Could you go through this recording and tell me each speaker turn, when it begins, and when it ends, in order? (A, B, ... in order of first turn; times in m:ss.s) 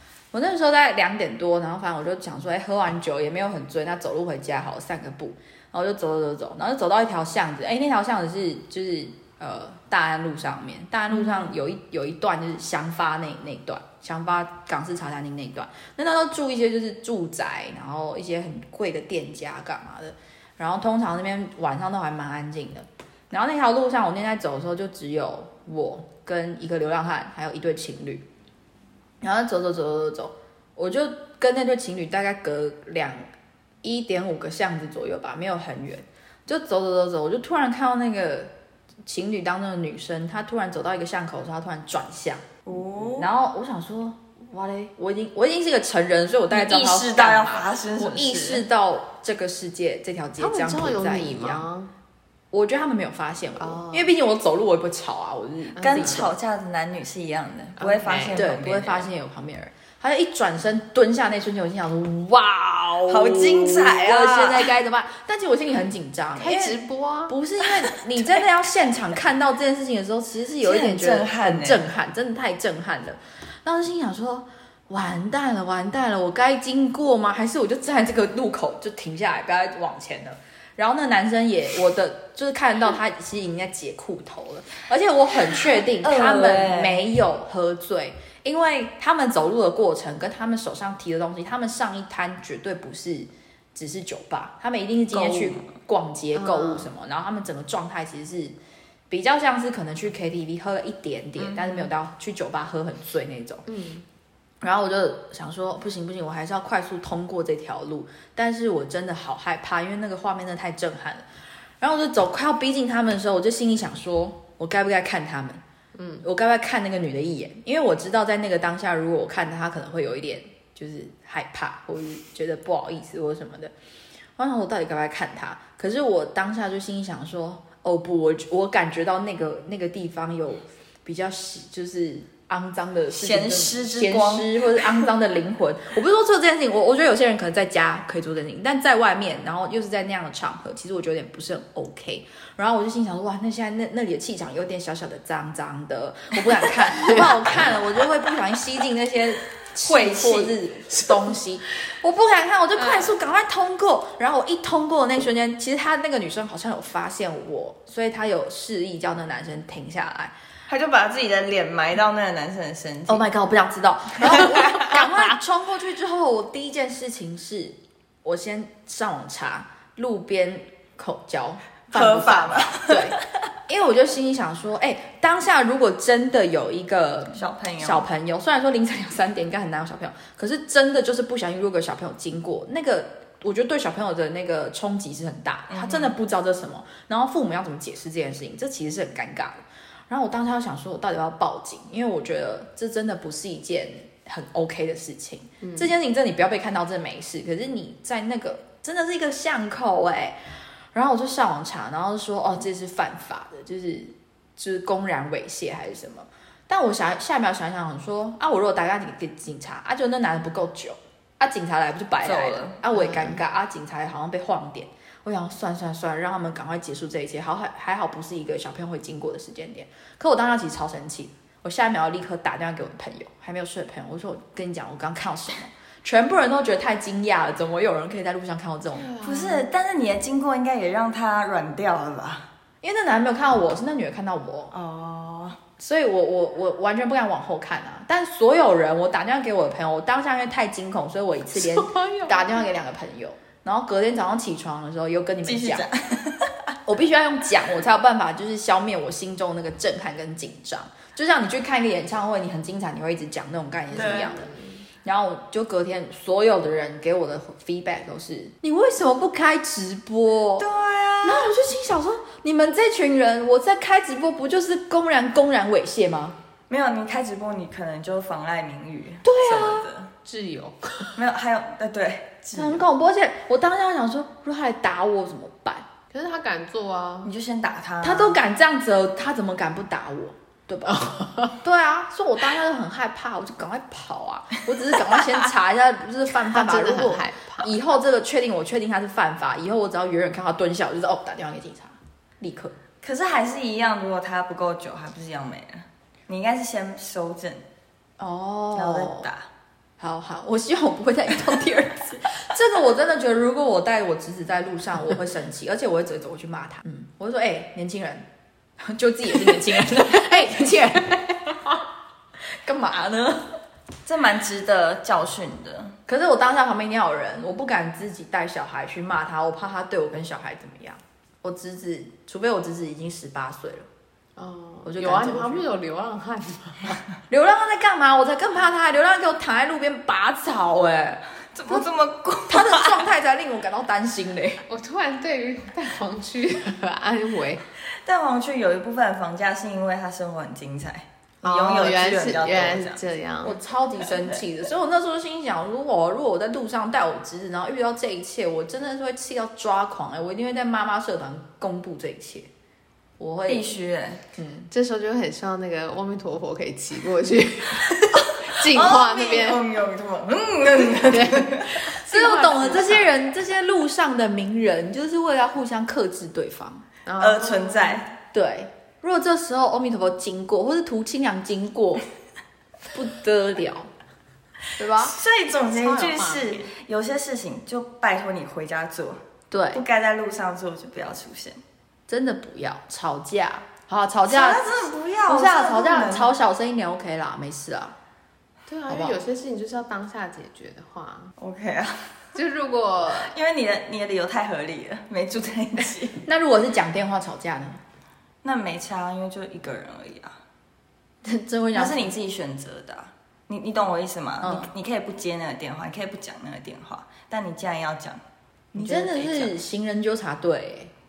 0:00.3-0:28.2 A
0:29.2-0:33.2 A
0:33.8-0:38.5 A
0:39.1-0:42.4 A
0:42.7-0:43.3 B
0:43.2-0:51.7 A
0:46.5-0:48.6 B
0:50.4-0:51.9 C
0:52.5-0:56.3 A
0:53.6-0:54.1 C
0:55.8-0:56.2 C
0:55.8-0:59.1 B
0:57.8-0:58.4 C
0:58.3-1:38.6 A
1:03.1-1:04.7 B
1:06.4-1:07.4 C
1:10.6-1:11.8 B
1:25.5-1:27.0 B
1:35.1-1:35.7 B
1:36.4-1:36.9 C
1:39.1-1:43.6 A
1:41.4-1:41.9 B
1:43.7-1:44.0 C
1:44.6-1:51.2 A
1:51.8-1:55.6 A
1:56.0-1:56.2 C
1:56.2-2:03.7 A
2:04.4-2:40.3 A
2:13.1-2:15.1 B
2:27.0-2:27.3 C
2:29.8-2:30.6 B
2:40.7-2:43.2 B
2:43.1-3:20.4 A
2:44.2-2:44.9 B
2:51.9-2:53.2 B
2:57.3-2:58.1 B
3:05.7-3:06.1 B
3:15.6-3:15.9 C
3:20.9-3:49.1 A
3:32.2-3:32.8 B
3:48.9-3:49.7 C
3:49.2-3:52.5 B
3:52.8-3:54.7 A
3:54.7-3:55.6 B
3:55.8-4:05.9 A
4:01.6-4:02.7 C
4:05.4-4:06.5 B
4:06.9-4:14.5 A
4:13.9-4:14.3 B
4:14.0-4:14.8 C
4:15.0-4:20.7 A
4:20.6-4:21.6 B
4:21.2-4:26.4 A
4:26.7-4:30.1 B
4:29.2-4:29.9 A
4:30.2-4:31.2 C
4:31.2-4:32.8 B
4:32.5-4:35.9 A
4:36.1-4:37.3 C
4:37.2-4:38.4 B
4:38.0-4:52.8 A
4:41.0-4:41.5 C
4:46.5-4:47.7 C
4:53.0-4:57.6 B
4:58.2-4:59.3 A
4:58.7-4:59.5 B
5:00.0-5:08.3 A
5:08.8-5:11.8 A
5:10.4-5:11.0 C
5:12.6-5:13.4 A
5:14.1-5:15.9 B
5:16.1-5:23.9 A
5:24.4-5:27.0 C
5:24.8-5:25.7 A
5:27.3-5:31.9 A
5:31.5-5:33.0 B
5:32.5-5:34.6 A
5:34.7-5:37.6 C
5:38.0-5:43.0 B
5:41.4-5:43.6 C
5:43.4-5:52.5 A
5:44.0-5:44.4 B
5:53.2-5:53.7 A
5:53.5-5:54.2 B
5:54.4-5:54.7 A
5:54.7-5:59.6 C
5:58.1-6:01.9 B
6:00.8-6:03.1 C
6:01.9-6:06.8 A
6:07.0-6:08.0 C
6:07.2-6:08.1 B
6:08.3-6:12.0 A
6:12.9-6:13.9 A
6:14.8-6:15.2 A
6:15.0-6:19.2 B
6:15.7-6:16.7 C
6:19.5-6:19.8 A
6:19.7-6:21.6 B
6:22.1-6:24.7 A
6:24.3-6:26.3 B
6:25.3-6:28.0 A
6:28.7-6:31.3 C
6:28.9-6:29.2 A
6:31.4-6:32.0 B
6:32.4-6:33.3 C
6:33.1-6:36.2 B
6:36.3-6:37.8 A
6:38.4-6:40.3 B
6:41.2-6:42.1 A
6:41.7-6:48.2 B
6:44.4-6:44.7 A
6:48.7-6:49.5 B
6:48.7-6:50.9 A